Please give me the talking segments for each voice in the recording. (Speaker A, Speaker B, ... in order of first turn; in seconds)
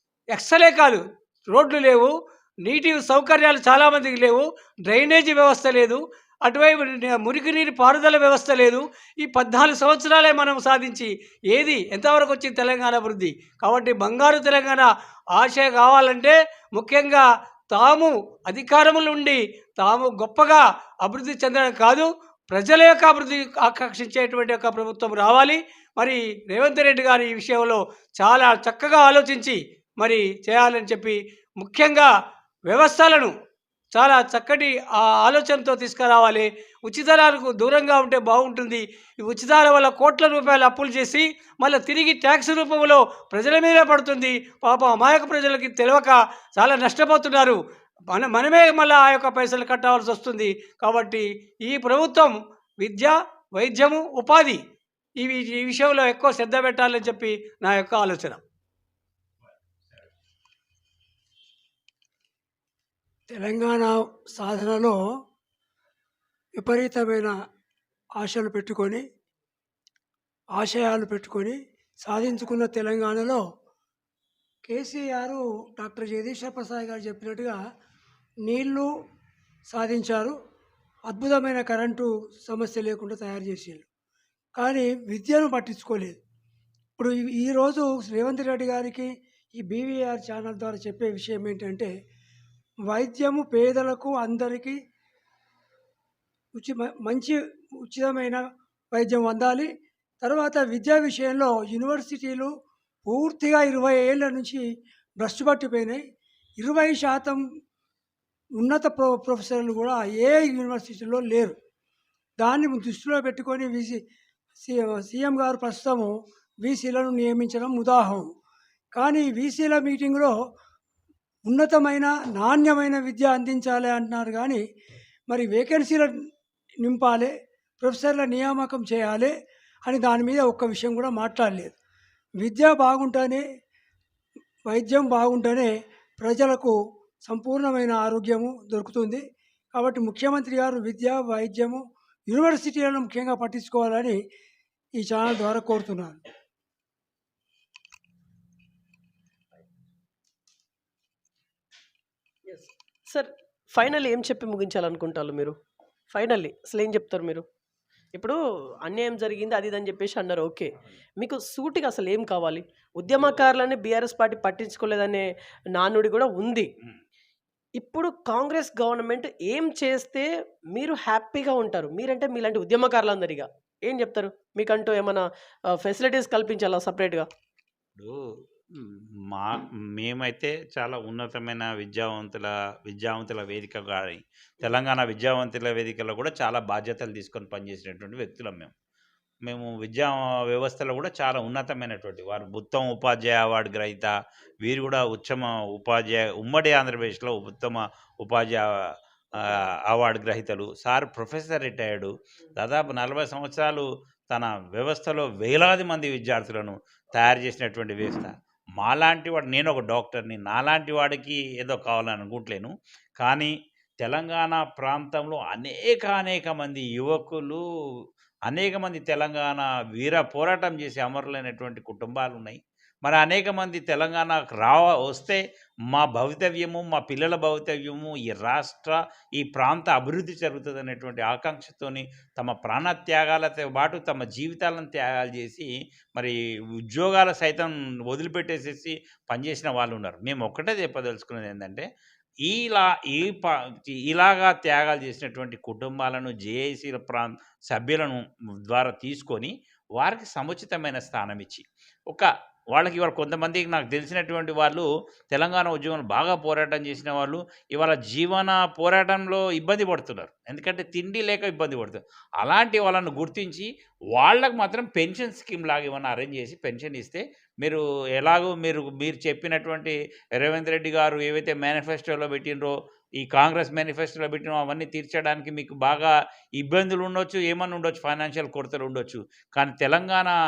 Speaker A: 0.3-32.1, 32.7-33.3, 33.9-54.6, 55.2-58.4, 103.4-104.1, 122.9-123.3, 131.4-131.7, 132.8-133.3, 134.9-135.7, 140.2-140.5, 141.4-141.8, 142.5-144.1, 145.1-146.1
Speaker B: 63.3-65.0, 66.6-67.3, 68.2-69.0, 70.5-73.4, 74.7-77.5, 78.5-78.8, 79.7-80.3, 81.1-83.8, 84.6-86.2, 87.0-89.0, 89.7-91.8, 92.9-94.7, 96.6-97.3, 97.9-98.3, 99.0-99.6, 100.2-102.5, 103.1-104.5, 105.2-106.0, 106.6-107.3, 108.6-111.5, 112.4-113.9, 114.7-116.1, 116.6-118.2, 119.0-120.3, 121.5-124.5, 125.3-126.0, 126.9-127.3, 127.8-129.3, 129.9-131.6, 132.4-133.3, 134.7-135.6, 136.2-136.6, 137.3-139.2, 139.8-141.7, 142.3-144.0, 145.3-145.8
Speaker C: 152.5-155.5, 156.1-157.4, 158.1-165.2, 165.8-166.7, 167.8-175.2, 175.8-177.2
Speaker D: 178.8-188.7, 189.4-217.6, 218.5-236.3, 236.9-241.8, 242.4-280.3